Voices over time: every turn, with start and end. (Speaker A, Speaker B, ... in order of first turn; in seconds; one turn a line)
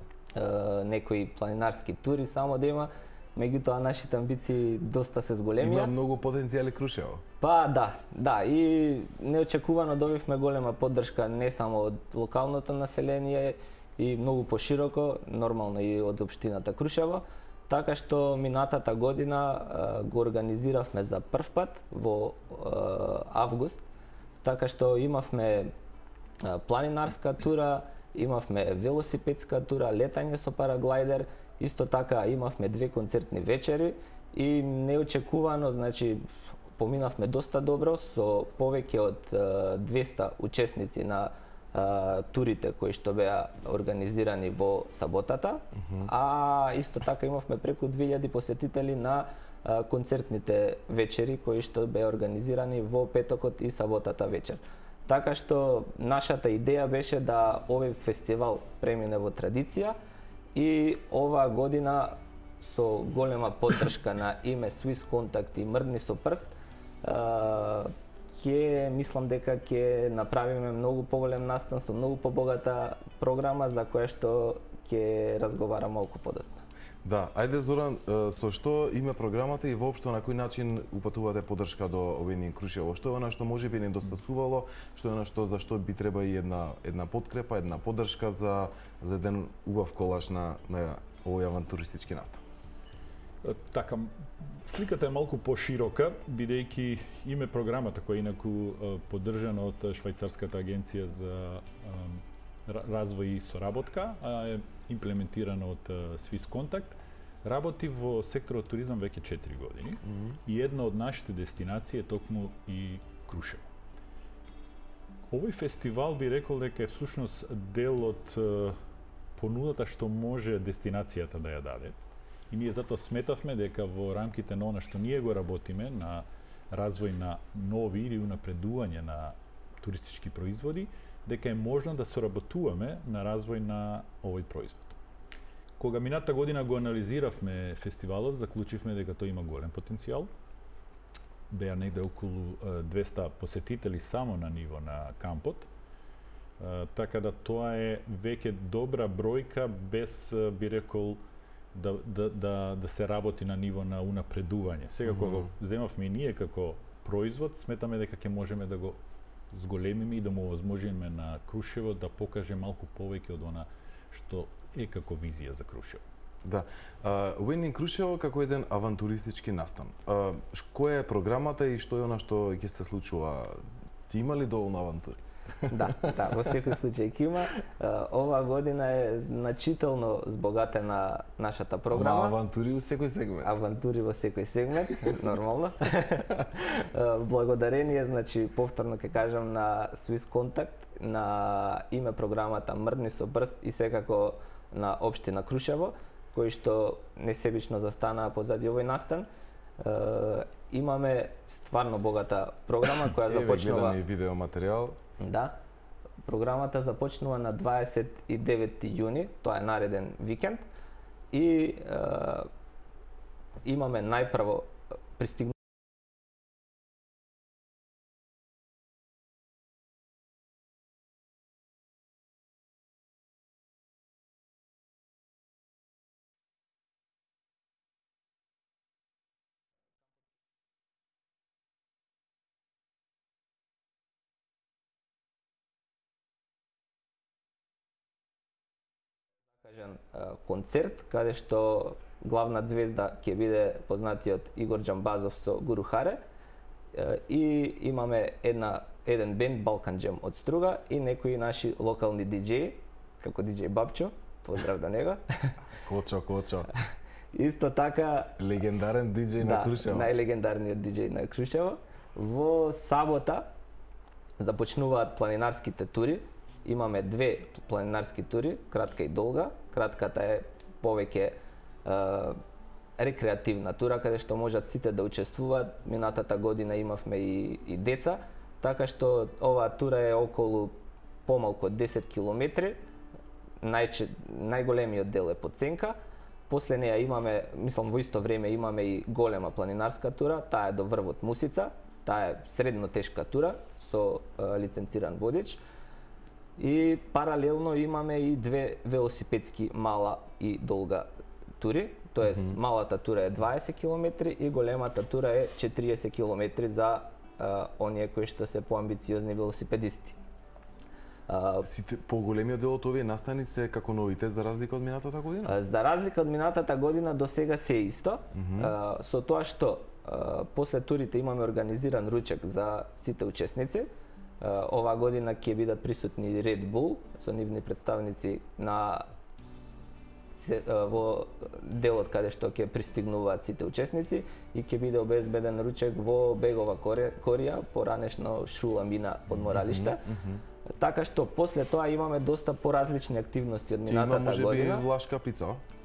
Speaker A: 0.3-5.9
Speaker B: 5.6-7.2
Speaker A: 7.4-23.8
Speaker A: 24.4-25.7
Speaker A: 26.4-36.2
Speaker A: 36.8-59.9
Speaker B: 45.8-46.1
Speaker A: 60.5-76.6
Speaker B: 77.0-92.4
Speaker C: 93.4-94.1
Speaker C: 94.6-113.6
Speaker C: 115.3-118.7
Speaker C: 119.4-121.9
Speaker C: 122.5-134.9
Speaker C: 135.8-140.3
Speaker C: 141.5-145.7
Speaker C: 146.6-151.2
Speaker C: 151.7-159.0
Speaker C: 159.5-166.0
Speaker B: 166.4-175.2
Speaker A: 175.7-182.3
Speaker B: 181.9-183.5
Speaker A: 183.4-199.3
Speaker A: 199.8-204.0
Speaker B: 203.2-204.9
Speaker A: 205.2-205.6
Speaker A: 206.2-210.6
Speaker A: 211.3-212.5
Speaker A: 213.6-215.5
Speaker A: 239.6-246.2
Speaker A: 246.9-255.5
Speaker B: 255.8-256.7
Speaker A: 257.3-258.4
Speaker B: 258.4-260.1
Speaker A: 259.4-263.4
Speaker A: 264.4-272.4
Speaker A: 273.0-280.7
Speaker A: 281.2-282.8
Speaker A: 283.6-285.9
Speaker A: 286.5-295.6
Speaker A: 296.6-301.1
Speaker A: 301.6-310.2
Speaker A: 311.3-311.7
Speaker B: 311.6-315.5
Speaker A: 315.4-323.9
Speaker B: 318.3-318.7
Speaker A: 324.4-329.1
Speaker A: 330.4-340.0
Speaker B: 339.4-340.4
Speaker A: 340.8-344.9
Speaker B: 343.9-345.6